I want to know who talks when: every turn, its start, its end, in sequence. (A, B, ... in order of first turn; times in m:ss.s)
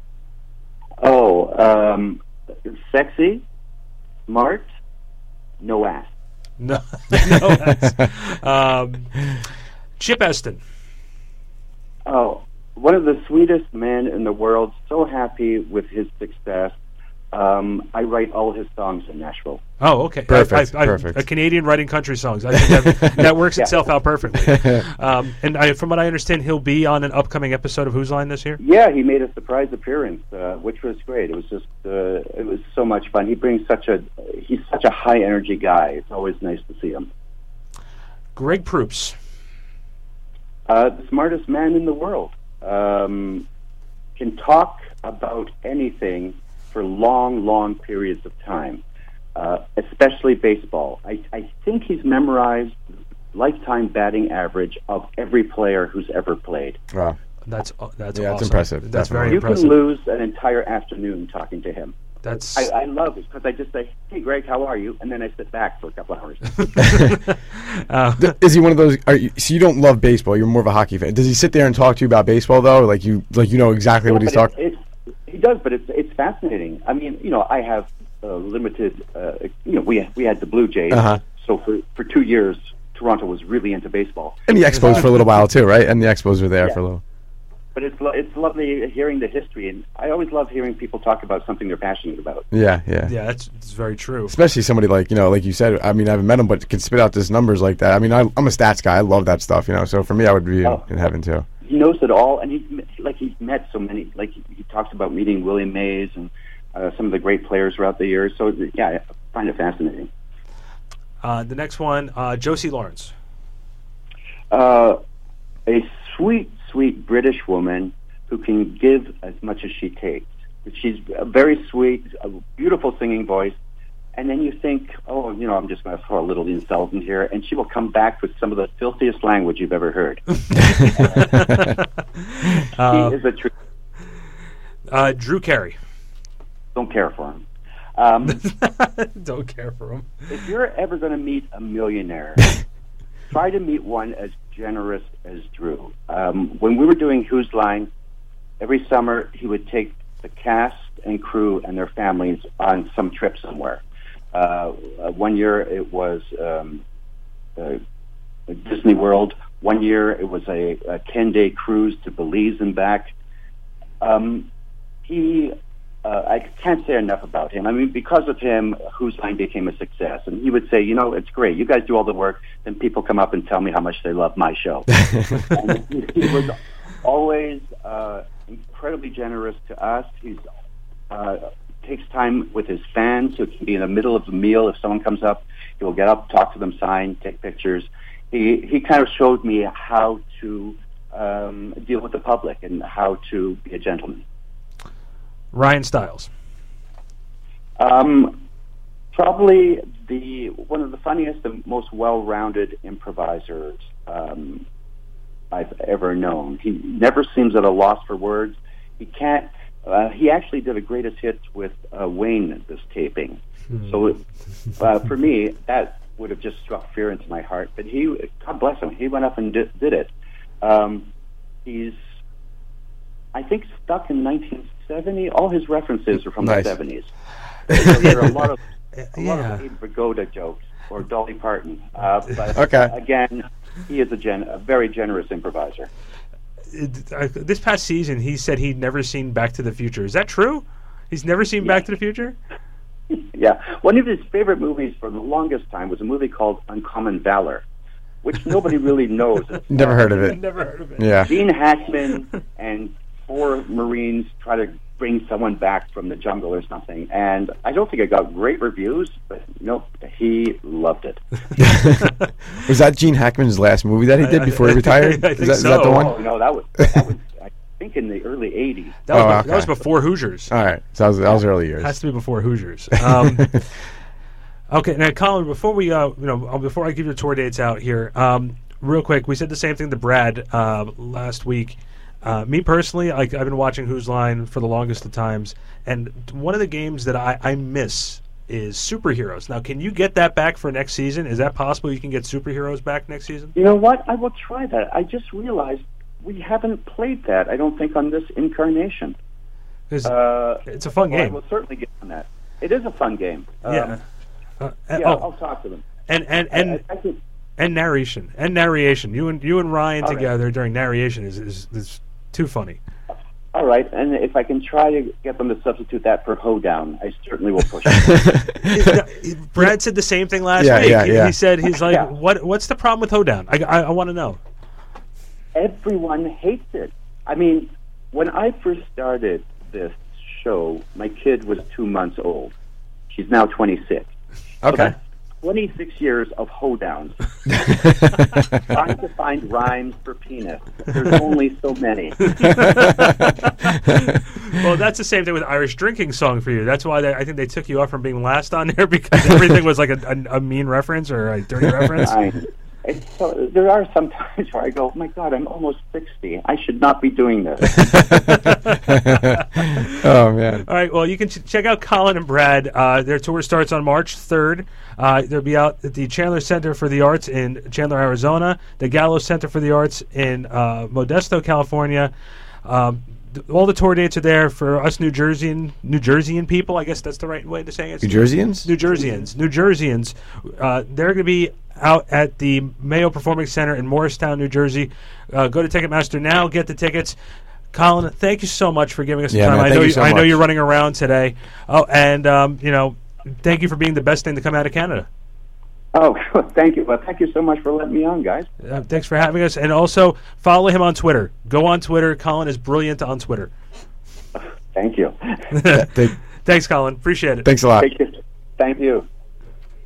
0:01.0-0:03.4 A
0:04.3-0:04.7 A
0:05.6-0:06.1 A
0:06.6-0:09.2 B
0:07.3-0:07.9 C
0:10.0-0:10.6 B
0:12.0-0:16.7 A
0:17.3-0:19.6 A
0:19.8-0:28.6 B
0:20.3-0:21.2 C
0:22.5-0:23.3 C
0:24.4-0:24.8 C
0:28.6-0:37.1 A
0:38.4-0:39.2 B
0:40.7-0:43.4 A
0:44.2-0:48.8 A
0:49.4-0:52.8 A
0:53.3-0:56.8 A
0:56.9-0:57.2 C
0:57.5-0:59.8 B
0:58.1-0:59.4 C
0:59.2-1:01.9 A
1:02.2-1:02.7 B
1:02.5-1:06.6 A
1:06.6-1:08.3 B
1:08.2-1:14.5 C
1:14.0-1:25.0 A
1:20.9-1:21.2 C
1:24.5-1:27.0 C
1:27.7-1:32.4 A
1:32.5-1:33.1 C
1:33.0-1:34.4 B
1:34.3-1:41.4 C
1:41.6-1:50.1 A
1:51.2-1:53.1 B
1:54.5-1:55.0 A
1:55.7-2:03.5 A
2:04.1-2:10.2 A
2:10.6-2:11.7 C
2:10.8-2:13.2 B
2:12.9-2:13.5 A
2:14.9-2:15.8 B
2:16.7-2:17.4 A
2:18.0-2:18.4 A
2:18.3-2:20.1 B
2:20.3-2:22.4 A
2:23.3-2:27.9 A
2:28.6-2:33.8 A
2:34.3-2:36.8 A
2:38.5-2:43.1 A
2:44.0-2:44.5 A
2:45.0-2:54.9 A
2:55.0-2:55.4 C
2:55.5-3:00.4 A
3:01.1-3:14.2 A
3:15.5-3:16.3 B
3:17.8-3:18.4 A
3:19.1-3:24.6 A
3:25.5-3:34.2 A
3:34.8-3:40.1 A
3:40.6-3:41.1 A
3:41.6-3:42.0 A
3:43.3-3:47.1 A
3:46.4-3:46.7 C
3:47.7-3:48.6 A
3:47.7-3:48.2 C
3:49.0-3:49.6 B
3:49.2-3:55.9 A
3:52.5-3:52.9 C
3:56.7-4:02.4 B
4:03.1-4:07.6 A
4:08.2-4:10.4 A
4:09.7-4:10.4 C
4:10.1-4:11.1 B
4:11.0-4:11.4 C
4:11.2-4:21.2 A
4:21.6-4:26.2 C
4:21.7-4:22.3 B
4:24.2-4:26.2 B
4:25.9-4:29.0 A
4:29.0-4:30.5 B
4:29.1-4:29.8 C
4:30.5-4:31.9 C
4:31.8-4:33.5 B
4:33.0-4:33.6 C
4:34.7-4:53.6 B
4:53.6-4:59.1 A
4:59.9-5:01.4 B
5:00.0-5:04.0 A
5:03.7-5:04.0 B
5:04.6-5:05.3 B
5:05.0-5:05.8 A
5:06.1-5:06.8 B
5:06.5-5:07.2 A
5:07.6-5:12.8 B
5:10.0-5:10.3 A
5:13.5-5:18.2 A
5:18.0-5:18.8 C
5:18.7-5:24.4 B
5:20.5-5:21.3 C
5:21.8-5:22.1 A
5:25.5-5:32.5 A
5:33.1-5:34.1 A
5:34.6-5:34.9 C
5:34.6-5:37.2 A
5:37.5-5:38.5 C
5:38.7-5:42.4 A
5:42.3-5:52.1 B
5:42.5-5:43.0 C
5:52.0-5:57.9 A
5:57.8-6:00.6 C
5:58.3-5:58.9 B
6:00.7-6:12.1 B
6:12.6-6:27.2 B
6:18.0-6:18.7 C
6:27.7-6:35.1 B
6:29.3-6:30.4 C
6:35.9-6:38.5 A
6:38.6-6:43.5 B
6:44.4-6:45.4 A
6:45.5-6:47.5 B
6:45.7-6:46.1 C
6:47.4-6:47.9 C
6:47.8-6:49.1 A